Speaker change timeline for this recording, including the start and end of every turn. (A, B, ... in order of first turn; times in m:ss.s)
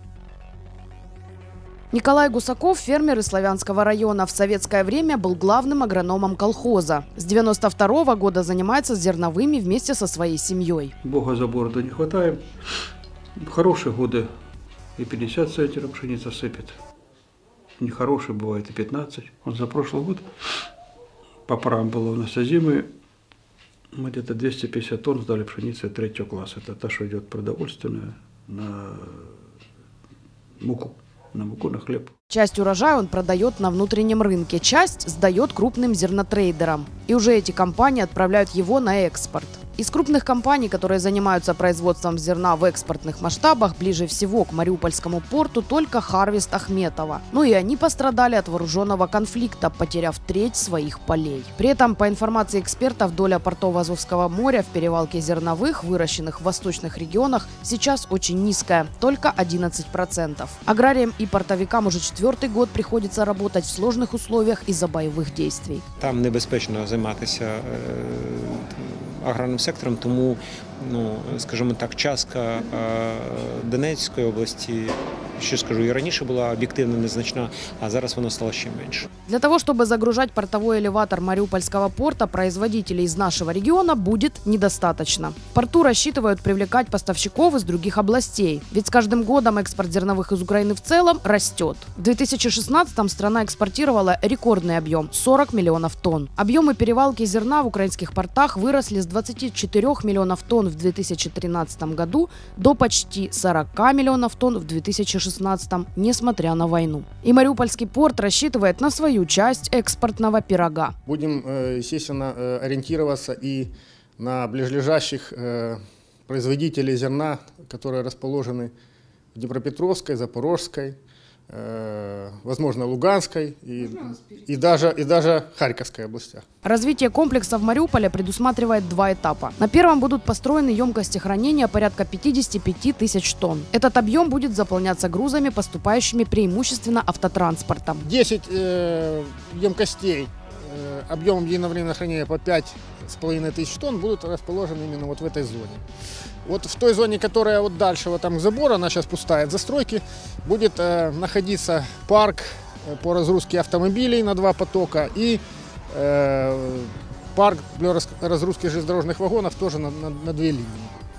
0:01.9-0:10.9 A
0:11.0-0:12.8 B
0:13.4-0:14.3 B
0:15.0-0:16.8 B
0:17.8-0:20.6 B
0:21.4-0:22.9 B
0:23.9-0:29.3 B
0:30.6-0:32.1 B
0:32.3-1:05.8 A
1:06.0-1:19.1 C
1:19.3-1:50.9 A
1:51.0-1:58.7 D
1:59.3-2:01.0 D
2:01.5-2:06.4 D
2:06.6-2:18.0 A
2:18.0-2:25.8 D
2:26.4-2:40.9 D